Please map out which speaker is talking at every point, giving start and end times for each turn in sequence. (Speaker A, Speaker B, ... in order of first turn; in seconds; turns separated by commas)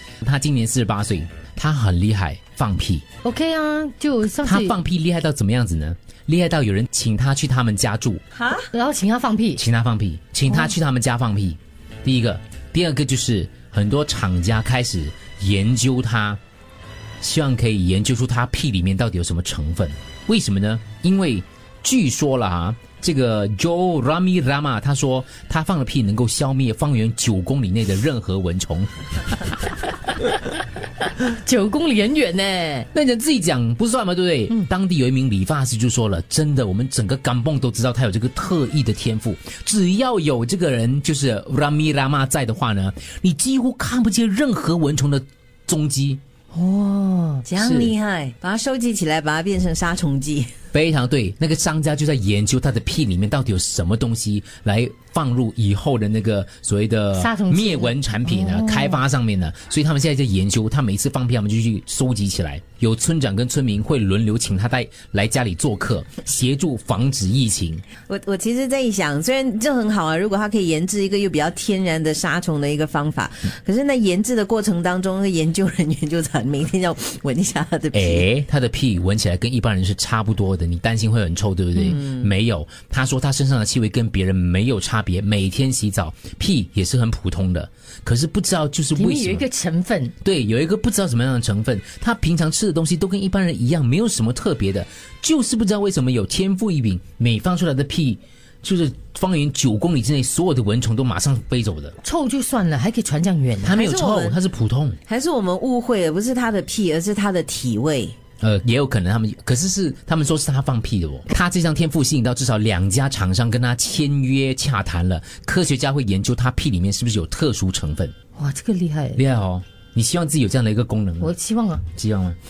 Speaker A: 0.2-3.0, Speaker B: 3.2-4.8, Speaker A: 4.4-8.2, Speaker C: 8.3-8.7, Speaker B: 8.7-9.6, Speaker A: 9.6-16.4, Speaker A: 17.2-28.9, Speaker B: 31.2-32.9, Speaker A: 32.9-46.2, Speaker B: 46.5-47.5, Speaker C: 47.5-50.5, Speaker A: 47.6-47.9, Speaker A: 50.7-67.8, Speaker B: 57.1-59.0, Speaker C: 68.1-78.2, Speaker A: 77.9-89.5, Speaker C: 81.8-82.3, Speaker B: 89.0-90.1, Speaker A: 90.2-102.0, Speaker B: 102.0-103.8, Speaker A: 103.6-105.0, Speaker C: 103.7-104.4, Speaker C: 105.0-108.2, Speaker A: 108.4-118.1, Speaker B: 118.4-119.2, Speaker A: 119.1-121.3, Speaker B: 121.2-121.8, Speaker A: 121.9-122.4